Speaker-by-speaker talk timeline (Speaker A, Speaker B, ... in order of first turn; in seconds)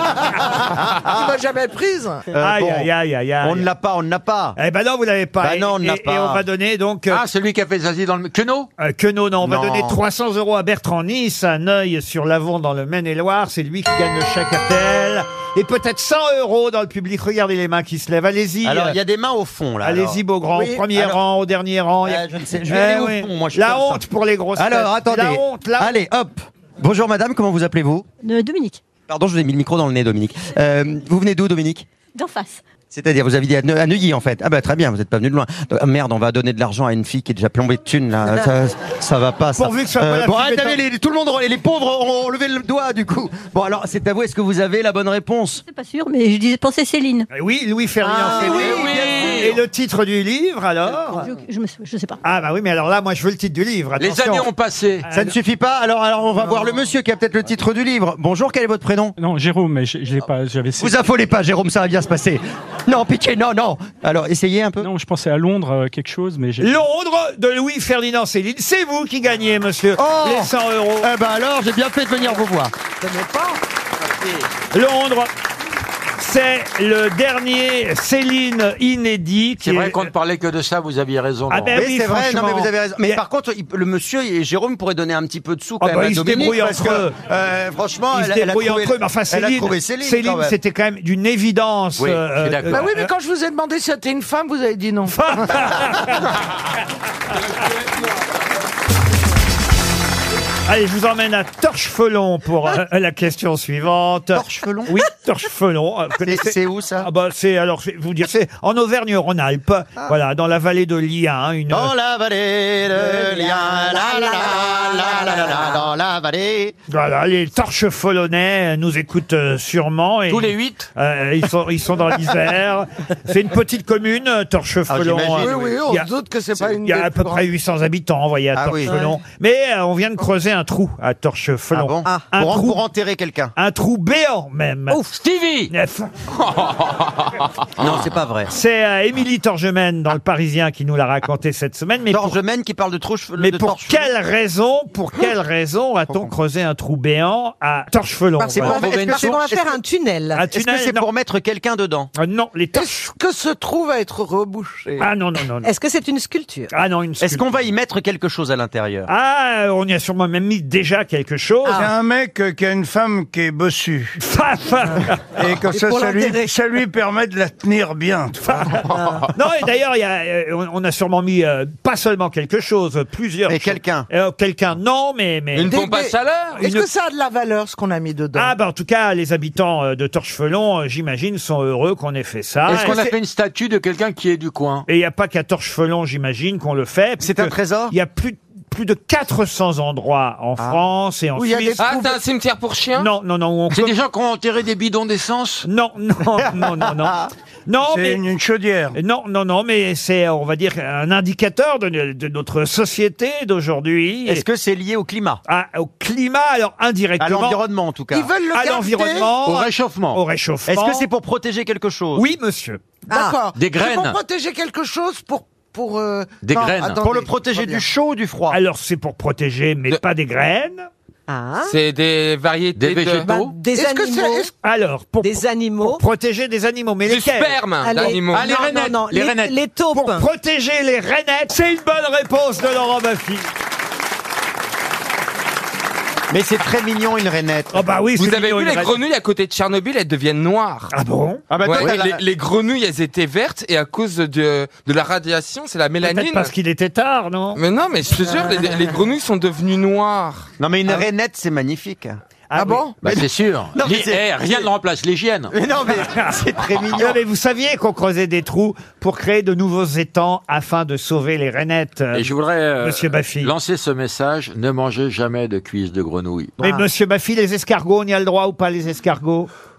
Speaker A: 0.2-1.4, 2.3-2.9, 3.4-4.6, 5.4-6.4, 9.4-10.0, 18.6-20.2, 20.9-21.2, 22.0-24.0, 24.6-28.1, 29.1-31.9, 32.9-45.6, 48.1-49.4, 55.1-59.1, 60.8-64.8, 70.0-72.7, 81.7-90.5, 104.3-105.0, 106.2-107.1, 111.7-116.8, 124.9-125.7, 128.5-129.0, 131.7-133.5, 137.8-138.5, 142.1-144.1, 148.5-149.8, 150.5-152.1, 157.2-159.1, 173.5-174.1, 187.2-187.9, 196.3-197.3, 204.2-205.4, 207.2-208.3, 210.7-212.2, 216.9-218.6, 236.3-237.8, 241.5-242.2, 250.6-252.2, 253.0-254.7, 255.5-257.2
Speaker B: 1.0-2.2, 92.7-95.2, 125.4-127.4, 152.7-155.0, 175.7-178.5, 191.3-192.2, 208.1-209.3, 213.1-217.8, 223.7-224.5, 252.6-253.0
Speaker C: 2.4-3.7, 4.5-7.2, 8.8-19.0, 19.8-26.0, 39.5-40.8, 47.3-51.3, 52.2-54.5, 66.6-71.1, 74.7-75.3, 76.2-80.1, 81.5-83.2, 85.8-87.1, 88.1-93.1, 95.1-96.3, 100.7-111.9, 116.9-126.1, 126.8-132.8, 133.6-135.1, 135.7-136.1, 138.5-142.4, 143.4-148.8, 150.3-151.0, 152.2-153.0, 155.0-155.7, 156.7-157.6, 159.1-161.9, 164.2-165.4, 168.4-168.8, 169.3-175.7, 178.3-183.0, 184.9-191.9, 192.9-193.9, 195.6-197.2, 197.7-198.2, 198.9-204.4, 205.5-207.6, 208.5-211.1, 212.1-212.8, 218.5-220.9, 224.6-227.6, 229.9-233.5, 237.7-239.0, 240.9-241.4, 246.0-247.6, 252.5-252.9, 256.9-263.5, 266.6-269.5
Speaker D: 7.1-8.7, 48.5-49.6, 54.0-55.0, 79.6-81.8, 92.0-92.9, 120.3-120.9, 135.1-135.7, 148.6-149.4, 182.7-184.8, 193.7-195.7, 209.4-210.2, 213.5-214.2, 216.4-217.0, 222.8-223.5, 228.1-229.6, 253.0-255.5, 262.1-266.6
Speaker E: 28.2-28.8, 32.1-32.6, 45.6-47.3, 51.2-52.2
Speaker F: 48.1-49.4, 73.0-73.6, 113.1-115.8, 148.4-150.4, 155.6-156.7, 165.7-166.5, 168.9-169.2, 213.1-213.3, 221.3-221.7, 223.2-224.5, 225.2-226.0, 227.8-230.3
Speaker G: 59.2-61.1, 64.8-66.8
Speaker H: 161.7-164.2, 165.3-168.8, 197.8-199.0
Speaker I: 168.9-169.3, 175.5-176.5, 191.8-193.1, 221.7-223.3, 227.0-228.6, 238.2-240.9, 241.6-246.5, 247.6-250.5